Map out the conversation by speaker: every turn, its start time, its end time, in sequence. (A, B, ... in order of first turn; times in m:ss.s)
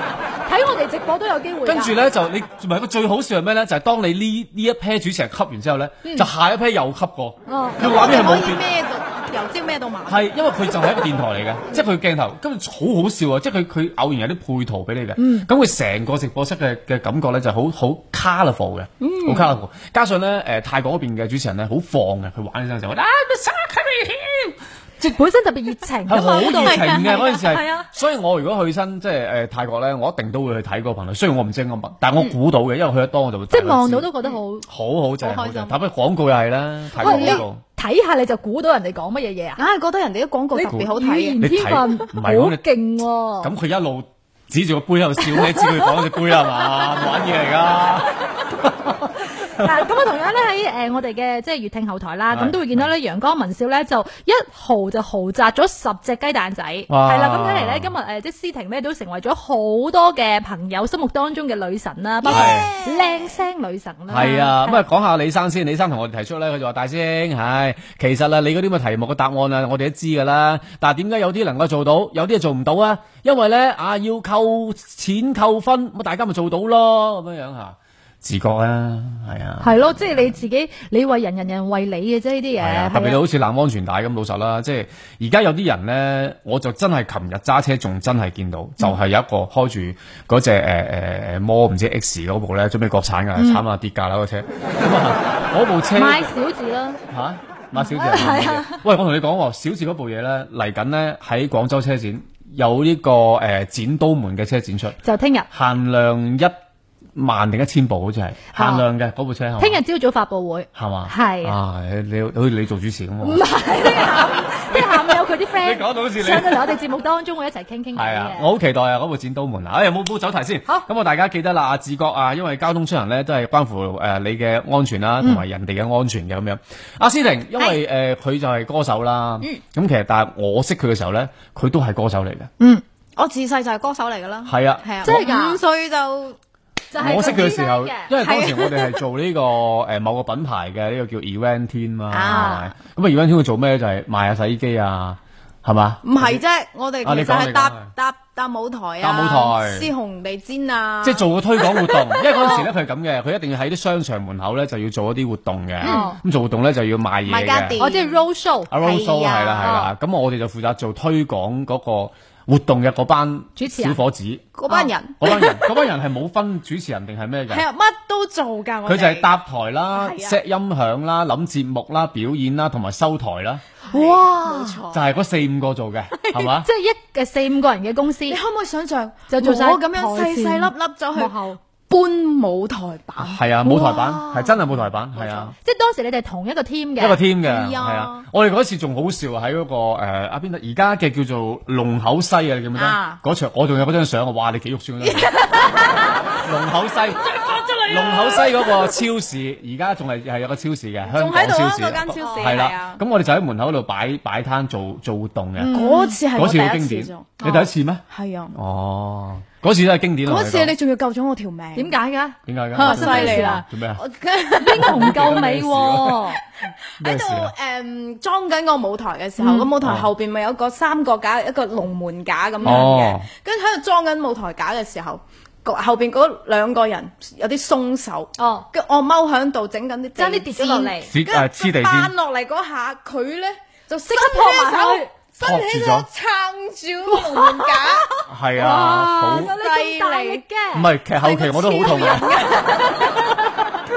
0:00.4-0:02.0 A
0:01.6-0:08.6 B
0:07.5-0:07.8 A
0:07.8-0:10.3 C
0:10.1-0:25.2 B
0:15.2-0:15.5 A
0:19.0-0:19.5 C
0:25.1-0:27.9 A
0:26.1-0:34.1 B
0:26.2-0:27.3 C
0:33.5-0:34.6 A
0:34.6-0:37.6 B
0:35.2-0:35.8 C
0:37.0-0:37.4 C
0:37.0-0:39.6 A
0:39.6-0:41.4 C
0:40.5-0:43.5 A
0:41.4-0:42.6 B
0:43.4-0:49.8 B
0:49.4-1:04.8 A
0:52.3-0:52.9 B
0:56.9-0:57.9 B
1:02.2-1:03.4 C
1:02.3-1:02.7 B
1:04.1-1:20.1 B
1:19.6-1:23.2 A
1:22.6-1:36.2 B
1:33.4-1:33.6 A
1:35.9-1:37.0 A
1:37.1-1:45.0 B
1:37.7-1:38.8 A
1:45.0-1:45.5 A
1:45.5-1:46.5 B
1:47.1-1:49.8 B
1:48.5-1:48.8 A
1:49.6-1:51.6 A
1:50.7-1:56.7 B
1:53.2-1:58.5 A
1:57.9-2:12.5 B
2:13.2-2:16.4 C
2:14.4-2:15.3 B
2:15.0-2:15.6 A
2:16.9-2:18.1 A
2:17.0-2:26.4 B
2:17.0-2:17.5 C
2:18.2-2:19.0 C
2:22.1-2:22.7 C
2:26.0-2:32.6 C
2:27.0-2:27.9 B
2:29.0-2:29.9 B
2:31.0-2:37.8 B
2:35.8-2:36.1 C
2:35.8-2:36.2 A
2:37.2-2:39.8 C
2:37.8-2:38.7 A
2:38.7-2:44.5 B
2:39.6-2:39.9 A
2:43.6-2:44.0 A
2:44.6-2:45.7 C
2:45.2-2:47.6 B
2:47.5-2:49.3 C
2:48.8-2:53.6 B
2:49.9-2:50.4 C
2:53.9-2:55.0 C
2:53.9-2:54.8 A
2:54.9-2:56.7 B
2:56.6-2:58.4 A
2:58.3-3:01.3 C
2:59.3-3:01.6 A
3:01.9-3:03.4 C
3:03.2-3:05.5 B
3:03.6-3:04.7 A
3:05.1-3:05.5 C
3:05.6-3:07.2 A
3:07.0-3:15.3 B
3:07.4-3:08.2 C
3:12.7-3:13.2 C
3:15.0-3:16.4 C
3:16.4-3:30.7 B
3:17.2-3:19.0 C
3:21.1-3:23.0 C
3:22.2-3:22.4 A
3:25.6-3:26.2 A
3:25.7-3:27.5 C
3:27.4-3:27.7 A
3:28.1-3:28.5 C
3:30.2-3:32.0 C
3:31.7-3:33.6 A
3:32.5-3:34.0 B
3:32.7-3:35.2 C
3:34.6-3:36.4 A
3:34.7-3:36.2 B
3:37.0-3:37.5 B
3:37.0-3:58.1 C
3:39.4-3:39.7 A
3:39.8-3:40.1 B
3:42.6-3:43.3 B
3:42.6-3:42.9 A
3:48.4-3:48.7 A
3:50.2-3:51.1 A
3:51.1-3:52.1 B
3:54.1-3:55.1 A
3:55.4-3:56.1 B
3:57.1-4:03.3 A
3:58.3-3:59.6 B
3:58.9-4:00.4 C
4:00.7-4:02.4 B
4:01.4-4:03.2 C